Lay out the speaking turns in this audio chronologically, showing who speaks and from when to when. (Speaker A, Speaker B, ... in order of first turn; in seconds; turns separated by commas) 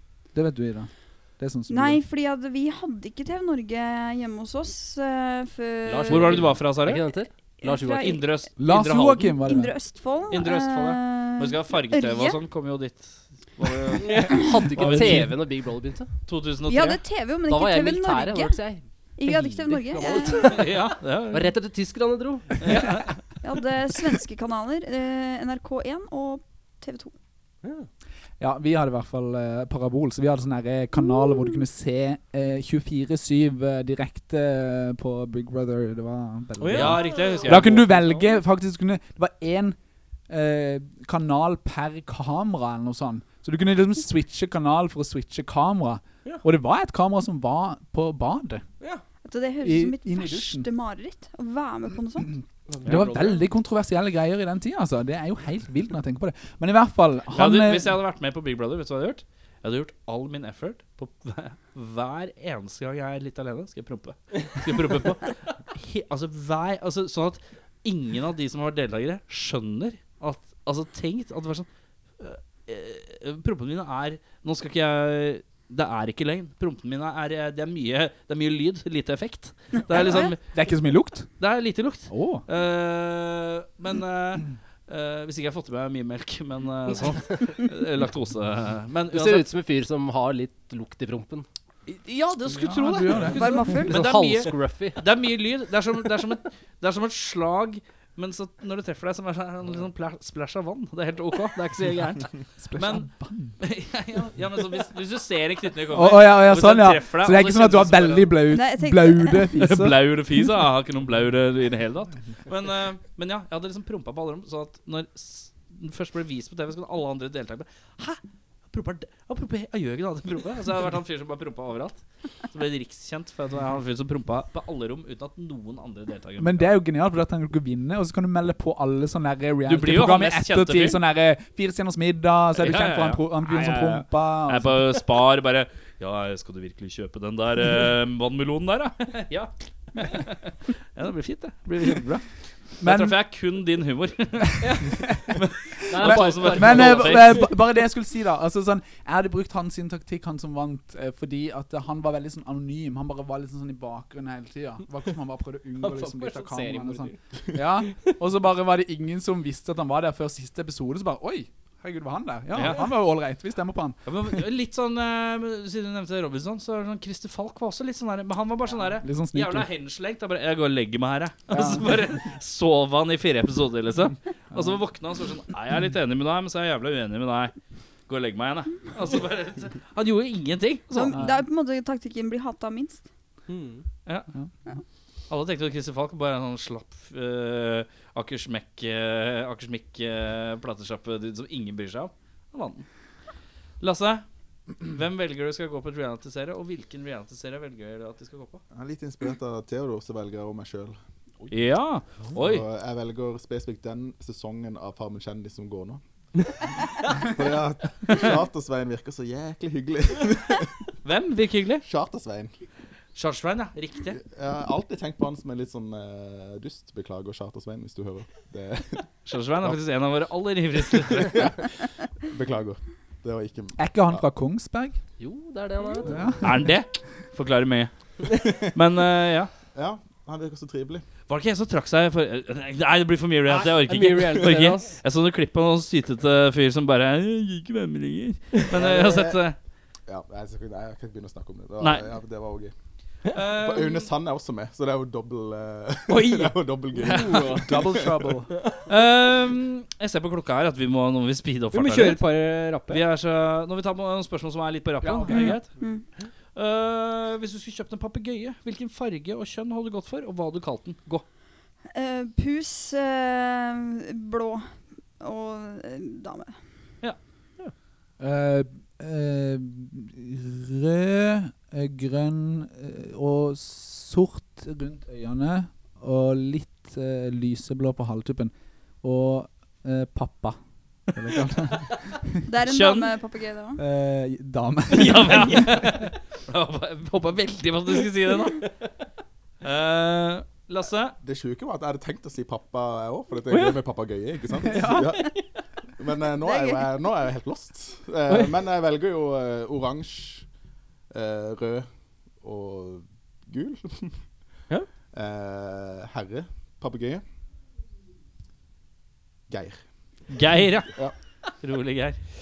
Speaker A: 0.3-2.0, Speaker B: 1.7-6.5, Speaker C: 5.8-8.2, Speaker D: 6.1-7.0, Speaker B: 7.6-8.2, Speaker D: 8.0-9.4, Speaker A: 8.6-9.7, Speaker B: 9.3-12.4, Speaker D: 10.3-15.4, Speaker E: 14.0-14.4, Speaker C: 14.2-16.1, Speaker A: 14.8-15.3, Speaker D: 16.3-17.0, Speaker B: 16.7-18.6, Speaker C: 17.5-22.9, Speaker B: 19.2-20.6, Speaker D: 20.4-21.5, Speaker D: 22.6-23.2, Speaker B: 23.4-27.1, Speaker E: 27.6-27.9, Speaker A: 28.4-39.8, Speaker B: 31.1-31.6, Speaker E: 36.6-38.2, Speaker D: 36.7-37.9, Speaker A: 40.3-48.6, Speaker B: 49.2-52.3, Speaker A: 49.6-50.7, Speaker E: 52.7-53.4, Speaker A: 52.8-58.0, Speaker D: 57.3-71.7, Speaker D: 72.2-80.4, Speaker B: 79.9-80.3, Speaker A: 80.1-81.3, Speaker D: 81.4-89.4, Speaker A: 82.1-82.4, Speaker C: 89.1-91.5, Speaker D: 91.9-103.1, Speaker A: 92.5-93.8, Speaker B: 93.3-94.0, Speaker C: 93.8-95.0, Speaker A: 102.6-103.5, Speaker D: 103.6-108.4, Speaker A: 105.9-110.2, Speaker B: 108.5-109.5, Speaker D: 109.5-126.7, Speaker A: 126.4-135.0, Speaker D: 129.7-131.0, Speaker D: 132.6-142.2, Speaker D: 142.8-144.8, Speaker A: 142.8-143.2, Speaker E: 144.6-144.9, Speaker A: 145.0-164.0, Speaker D: 145.3-147.5, Speaker E: 145.9-147.4, Speaker E: 155.8-157.2, Speaker D: 162.5-162.9, Speaker D: 164.1-177.5, Speaker A: 169.0-169.7, Speaker A: 171.5-171.9, Speaker A: 174.5-174.8, Speaker D: 178.1-181.2, Speaker B: 180.9-183.0, Speaker A: 181.1-181.4, Speaker E: 183.5-183.8, Speaker D: 185.3-192.8, Speaker D: 193.8-194.2, Speaker D: 194.8-198.6, Speaker F: 198.7-201.0, Speaker D: 201.5-202.6, Speaker F: 202.3-206.0, Speaker F: 207.2-210.7, Speaker D: 211.0-211.8, Speaker F: 211.8-212.5, Speaker D: 213.1-214.2, Speaker F: 214.1-219.1, Speaker D: 219.2-221.6, Speaker F: 220.9-221.7, Speaker F: 222.3-224.2, Speaker A: 223.8-225.0, Speaker C: 225.2-226.3, Speaker A: 226.1-226.7, Speaker D: 226.4-229.5, Speaker F: 229.7-231.0, Speaker D: 231.3-239.6, Speaker E: 233.5-235.0, Speaker F: 238.7-239.4, Speaker F: 240.1-242.7, Speaker D: 241.8-242.1, Speaker D: 243.3-244.1, Speaker F: 243.5-248.1, Speaker E: 246.1-247.7, Speaker D: 247.0-247.6, Speaker A: 247.6-248.5, Speaker E: 248.6-248.8, Speaker D: 248.9-252.2, Speaker E: 251.7-253.0, Speaker D: 252.9-255.7, Speaker E: 255.1-255.5, Speaker A: 255.3-255.5, Speaker B: 255.8-256.0, Speaker D: 256.5-261.2, Speaker B: 261.9-266.6, Speaker A: 268.2-280.6, Speaker A: 281.1-282.4, Speaker B: 282.5-283.8, Speaker D: 282.6-283.1, Speaker A: 283.8-286.1, Speaker D: 284.9-288.7, Speaker D: 289.6-291.1, Speaker F: 291.2-295.3, Speaker E: 293.5-293.8, Speaker F: 296.0-300.4, Speaker B: 296.4-296.9, Speaker E: 298.3-298.6, Speaker F: 301.1-301.9, Speaker F: 302.4-304.2, Speaker F: 305.1-307.2, Speaker F: 309.5-309.8, Speaker D: 310.3-311.0, Speaker D: 311.5-312.2